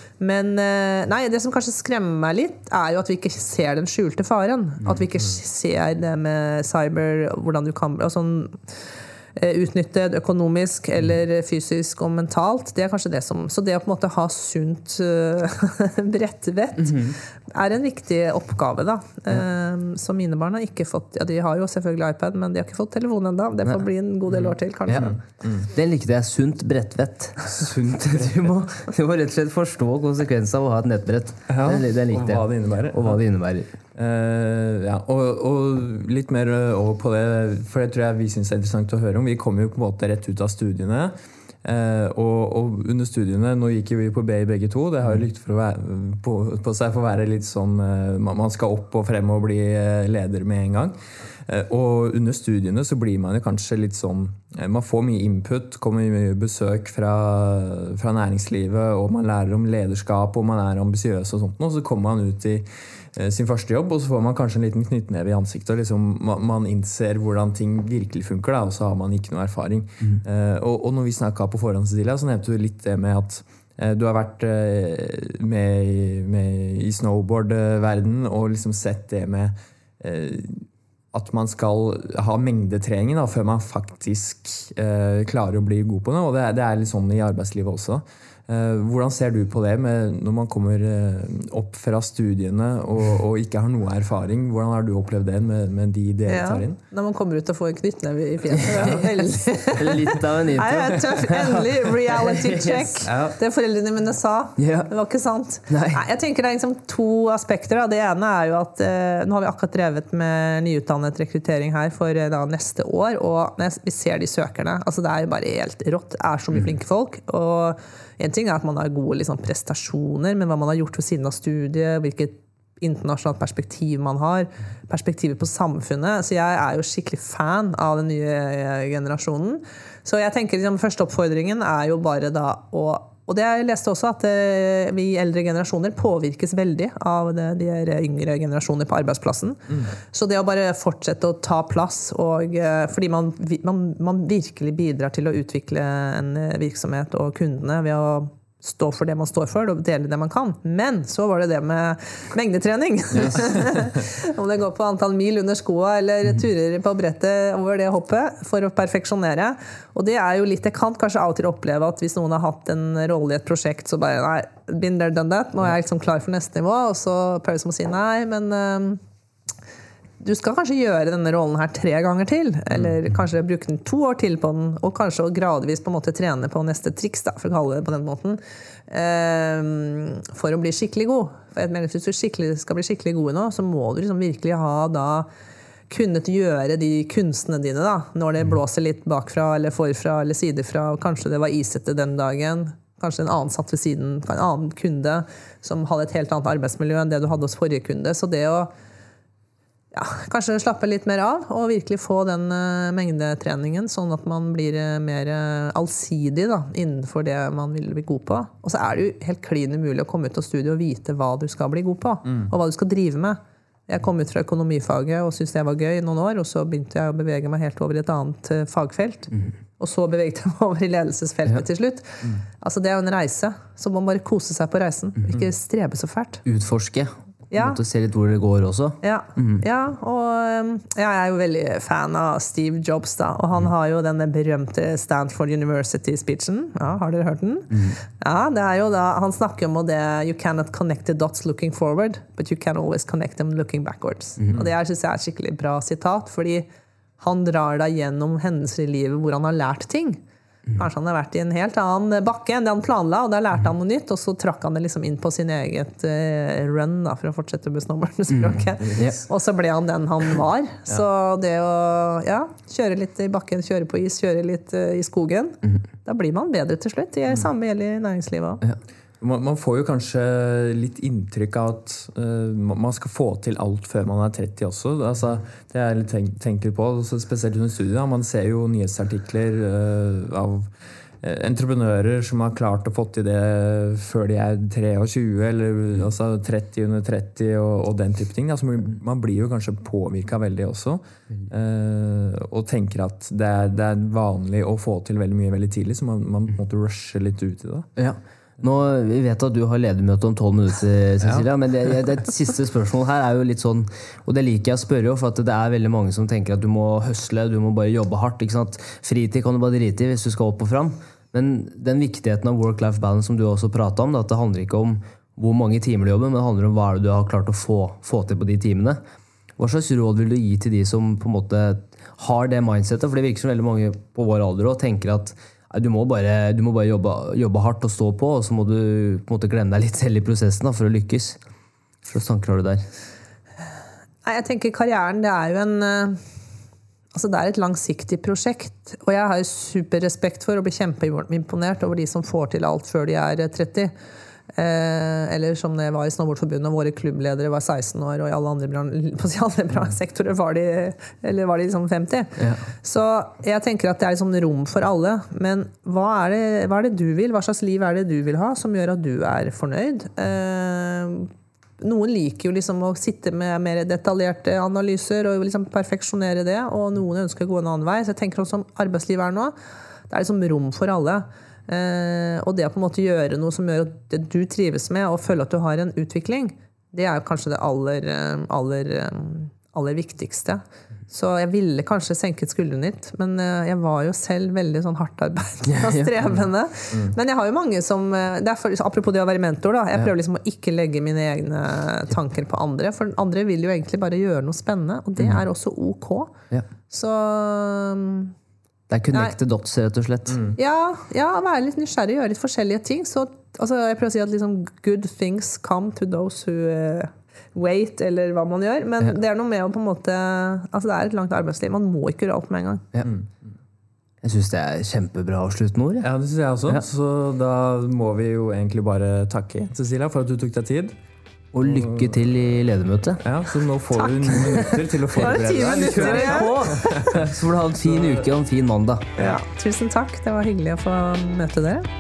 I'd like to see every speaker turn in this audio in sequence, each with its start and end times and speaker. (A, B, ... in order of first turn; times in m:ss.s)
0:00.2-0:08.6 A
0:09.4-0:25.2 A
0:16.8-0:17.2 B
0:24.3-0:25.7 C
0:24.9-0:25.1 B
0:25.7-0:33.7 B
0:27.5-0:28.4 C
0:31.5-0:33.2 C
0:34.0-1:36.8 C
1:36.3-2:49.0 A
1:39.7-1:42.9 B
1:43.0-1:43.4 C
1:44.6-1:44.9 B
1:45.7-1:46.0 B
2:50.2-3:05.3 A
3:05.9-3:18.7 A
3:19.9-3:46.4 A
3:46.4-3:49.6 B
3:47.5-3:47.8 A
3:49.0-4:06.7 A
3:57.7-3:58.0 B
4:07.2-4:10.2 A
4:10.8-4:28.6 A
4:18.8-4:19.1 C
4:29.2-4:57.9 C
4:58.0-5:19.0 B
5:19.6-5:31.4 B
5:32.0-5:32.9 B
5:34.2-5:36.2 A
5:37.1-5:43.9 A
5:44.5-6:09.6 A
5:52.4-5:52.6 B
6:10.1-6:36.4 A
6:25.7-6:26.1 B
6:36.9-6:38.4 A
6:38.9-6:40.4 B
6:40.3-6:40.6 C
6:40.6-6:52.9 A
6:53.0-6:53.3 C
6:54.2-6:56.1 B
6:56.0-7:01.0 C
7:01.5-7:03.2 B
7:01.6-7:02.2 C
7:03.2-7:07.2 C
7:04.0-7:07.1 A
7:05.2-7:09.2 B
7:07.8-7:08.3 C
7:09.2-7:11.9 A